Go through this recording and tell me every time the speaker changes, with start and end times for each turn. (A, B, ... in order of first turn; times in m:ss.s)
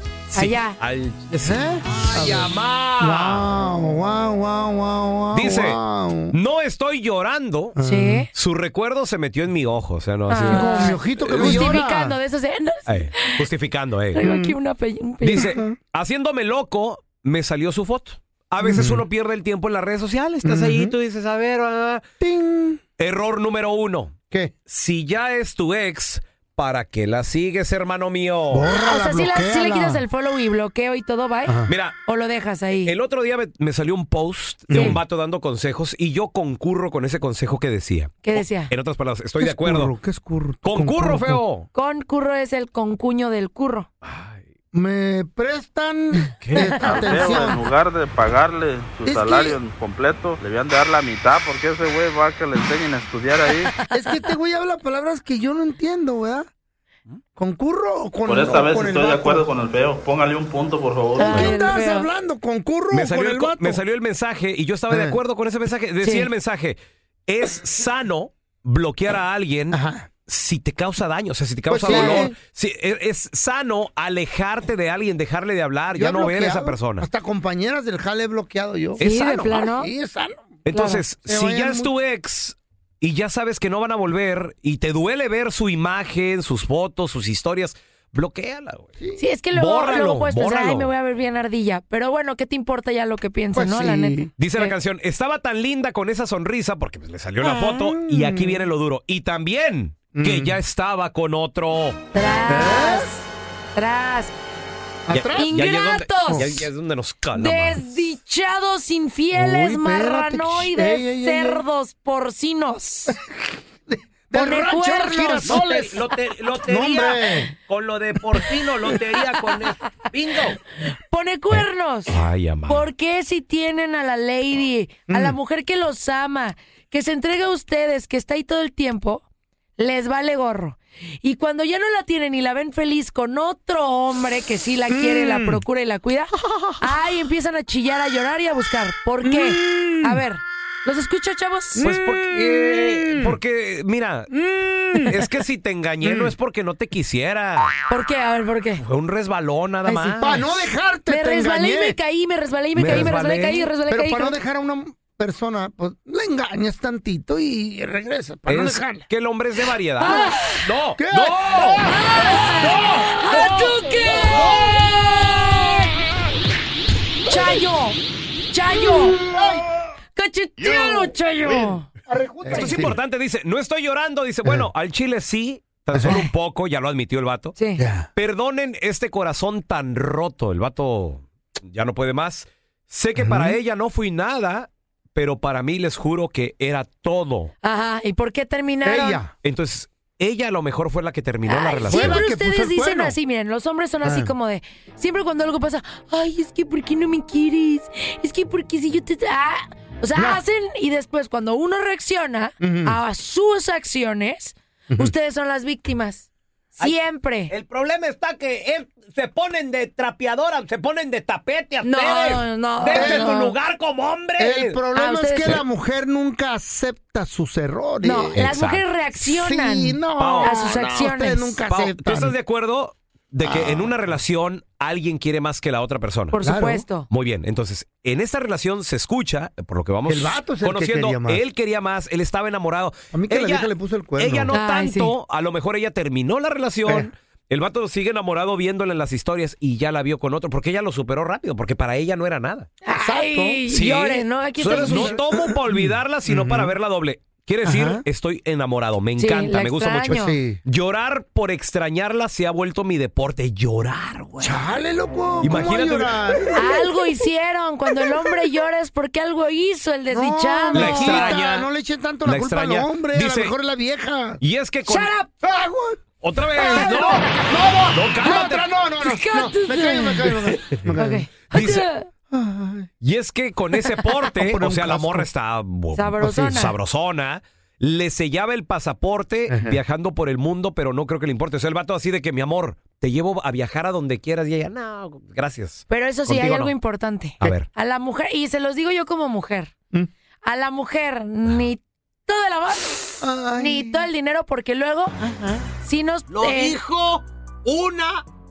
0:00.3-0:03.4 A
0:00.3-0:00.8 B
0:01.4-0:06.4 C
0:02.2-0:02.4 D
0:05.3-0:07.8 A
0:07.8-0:08.2 C
0:07.8-0:08.3 B
0:08.3-0:11.8 A
0:10.3-0:13.4 B
0:10.4-0:12.2 C
0:12.9-0:14.3 A
0:14.1-0:15.5 B
0:14.2-0:14.6 C
0:15.2-0:22.0 A
0:15.3-0:15.7 C
0:18.6-0:19.0 C
0:20.4-0:20.9 C
0:22.2-0:22.8 C
0:23.0-0:24.1 A
0:24.7-0:28.7 A
0:28.5-0:30.0 C
0:28.7-0:32.9 B
0:31.4-0:31.7 C
0:31.7-0:32.0 A
0:32.8-0:39.9 A
0:34.7-0:35.0 C
0:34.7-0:35.0 B
0:38.2-0:38.7 B
0:39.4-0:41.4 C
0:40.6-0:41.7 A
0:41.7-0:43.9 B
0:44.0-0:44.4 A
0:44.7-0:47.7 C
0:46.4-0:47.4 A
0:46.8-0:53.7 E
0:49.0-0:49.6 C
0:53.6-0:54.2 B
0:53.9-0:56.5 C
0:57.4-0:59.5 C
0:58.3-1:01.4 E
1:01.1-1:03.8 C
1:01.2-1:02.1 B
1:02.9-1:17.1 A
1:04.9-1:05.2 C
1:06.0-1:06.3 B
1:09.7-1:10.1 C
1:11.7-1:12.3 C
1:11.8-1:12.3 B
1:15.9-1:20.6 C
1:19.0-1:19.6 A
1:19.0-1:19.9 B
1:20.6-1:28.9 A
1:20.7-1:21.0 B
1:21.2-1:21.9 C
1:29.2-1:34.7 B
1:29.5-1:30.9 A
1:33.5-1:34.3 C
1:34.4-1:42.0 A
1:37.4-1:37.9 B
1:38.0-1:38.6 C
1:40.1-1:40.6 C
1:42.1-1:44.3 B
1:42.5-1:43.1 C
1:45.1-1:45.5 C
1:45.1-1:47.9 A
1:45.3-1:46.6 B
1:46.3-1:46.5 C
1:47.3-1:53.2 B
1:49.3-1:51.6 C
1:53.9-1:56.0 C
1:54.3-1:56.0 B
1:55.4-1:57.2 D
1:55.6-1:56.7 A
1:56.6-1:57.5 C
1:57.7-1:59.7 A
1:58.3-2:00.6 D
2:01.1-2:02.1 B
2:01.5-2:02.9 A
2:02.6-2:09.2 B
2:05.1-2:05.4 C
2:09.8-2:21.9 B
2:14.9-2:15.6 C
2:16.4-2:16.9 C
2:19.2-2:20.2 C
2:21.7-2:23.4 C
2:21.8-2:24.3 A
2:24.3-2:25.4 C
2:25.0-2:27.7 A
2:26.0-2:26.3 C
2:27.9-2:28.8 B
2:28.8-2:30.4 A
2:29.8-2:30.4 B
2:30.2-2:32.0 C
2:31.1-2:34.4 B
2:32.7-2:33.7 A
2:32.8-2:33.1 C
2:33.8-2:39.1 C
2:38.4-2:41.8 A
2:40.0-2:40.7 B
2:41.0-2:45.0 C
2:41.8-2:46.0 B
2:42.6-2:43.4 A
2:47.2-2:47.6 C
2:47.3-2:48.0 B
2:48.5-2:49.2 B
2:48.8-2:49.6 C
2:50.2-2:51.9 B
2:50.6-2:53.0 C
2:52.5-2:57.5 A
2:52.5-2:52.8 B
2:55.9-2:56.2 C
2:56.0-2:56.3 B
2:57.6-2:57.8 B
2:57.8-2:58.1 C
2:58.1-3:07.5 A
3:03.2-3:03.6 C
3:07.6-3:09.2 B
3:08.8-3:09.3 C
3:09.4-3:12.2 A
3:11.4-3:27.5 B
3:11.9-3:13.2 C
3:14.0-3:14.3 C
3:20.1-3:20.4 C
3:22.6-3:23.0 C
3:27.5-3:34.8 D
3:31.8-3:33.6 B
3:32.9-3:33.3 C
3:34.4-3:38.5 C
3:34.9-3:35.6 B
3:38.0-3:41.6 B
3:38.4-3:38.8 A
3:39.2-3:42.4 C
3:40.2-3:40.6 A
3:41.7-3:46.4 A
3:43.4-3:43.9 C
3:46.3-3:47.1 B
3:46.4-3:46.8 C
3:47.1-4:02.7 A
3:50.0-3:51.4 C
3:53.1-3:54.5 C
3:54.5-3:55.1 B
4:02.8-4:05.2 B
4:02.9-4:03.6 C
4:03.7-4:14.8 A
4:04.6-4:06.7 C
4:07.6-4:08.0 C
4:09.2-4:10.4 B
4:10.0-4:10.6 C
4:14.4-4:17.2 C
4:15.4-4:16.4 A
4:16.5-4:21.6 B
4:17.9-4:18.3 C
4:20.1-4:24.4 C
4:20.7-4:21.7 A
4:22.2-4:23.5 A
4:24.4-4:25.1 A
4:24.8-4:25.3 B
4:25.4-4:26.0 C
4:26.2-4:27.3 A
4:26.5-4:31.7 C
4:26.7-4:27.2 B
4:27.9-4:28.7 A
4:29.0-4:30.3 B
4:30.4-4:30.9 A
4:30.9-4:32.1 B
4:31.5-4:31.9 A
4:32.3-4:32.9 C
4:33.0-4:46.7 A
4:34.3-4:35.3 C
4:35.9-4:36.7 B
4:39.5-4:39.8 C
4:45.9-4:49.7 B
4:47.4-4:47.7 A
4:50.4-4:55.1 B
4:53.2-4:54.1 C
4:55.2-4:55.5 C
4:55.8-4:56.8 B
4:56.3-4:58.2 D